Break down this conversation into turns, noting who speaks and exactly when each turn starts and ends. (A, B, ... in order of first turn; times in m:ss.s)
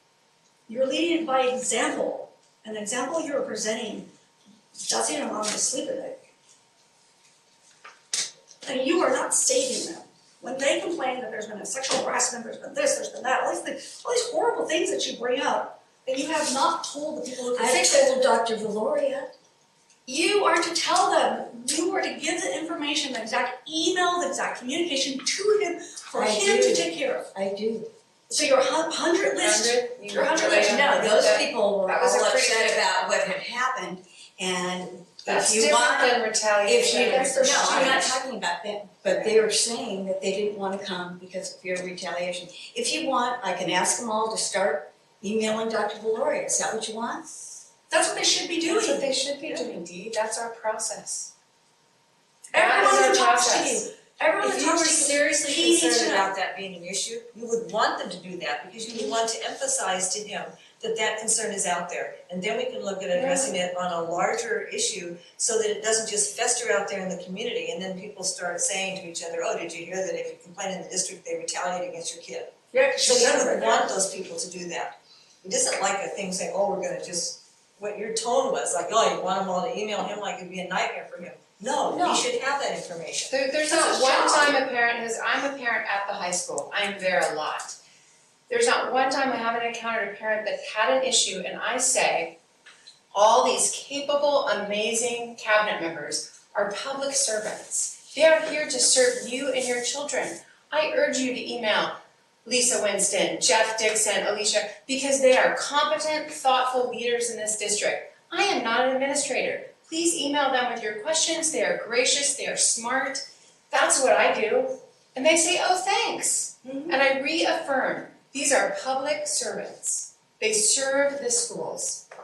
0:00.7-0:04.1 A
0:04.8-0:06.2 A
0:08.6-0:18.2 A
0:17.5-0:19.3 B
0:20.0-0:27.3 A
0:26.1-0:27.9 B
0:28.3-0:31.2 A
0:29.4-0:32.8 C
0:30.3-0:47.3 B
0:35.2-0:38.1 C
0:36.8-0:38.2 A
0:39.1-0:39.4 C
0:47.9-0:49.6 A
0:48.6-0:51.3 C
0:52.5-0:56.3 A
0:52.5-0:53.8 C
0:54.4-1:24.6 D
1:03.1-1:03.5 C
1:12.7-1:13.9 A
1:21.8-1:22.2 B
1:23.3-1:27.8 C
1:28.5-1:32.4 C
1:33.1-2:02.0 C